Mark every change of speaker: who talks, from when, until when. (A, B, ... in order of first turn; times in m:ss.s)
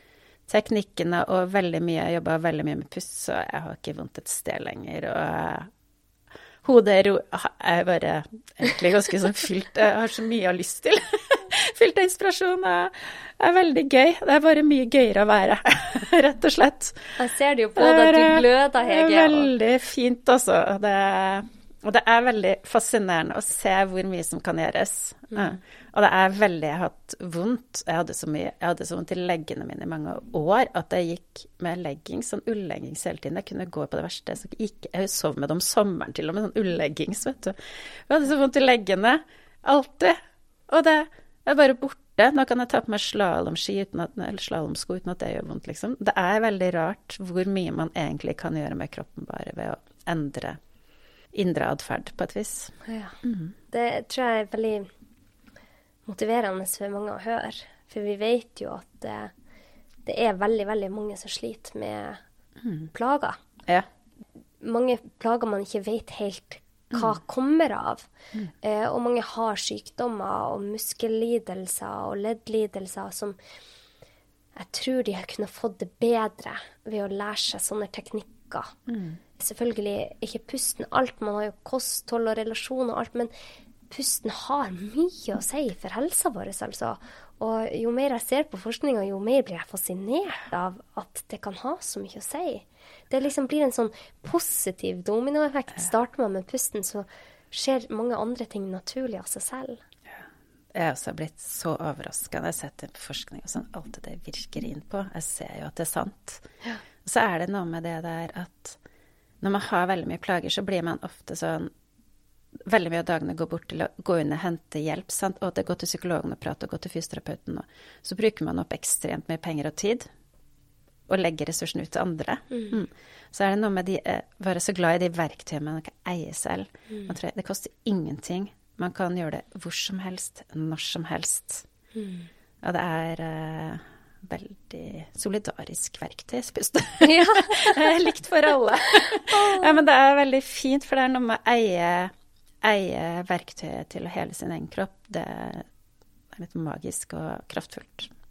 0:00.5-0:05.7 A
0:06.6-0:17.2 A
0:17.2-0:19.5 B
0:17.8-0:37.6 A
0:38.1-0:50.6 A
0:51.3-0:53.5 A
0:52.8-0:53.2 B
0:53.7-0:54.9 B
0:56.0-0:59.3 B
1:00.0-1:02.2 B
1:02.9-1:03.4 B
1:04.6-1:08.1 B
1:08.6-1:13.4 B
1:14.6-1:18.7 B
1:18.9-1:19.2 A
1:19.4-1:23.3 B
1:23.9-1:39.8 B
1:40.1-1:46.4 A
1:47.0-1:48.8 A
1:49.4-1:51.7 A
1:52.6-2:00.0 A
2:01.1-2:11.6 A
2:11.9-2:12.3 B
2:12.6-2:22.1 A
2:17.0-2:17.8 B
2:19.0-2:19.8 B
2:22.6-2:25.7 A
2:26.3-2:28.1 A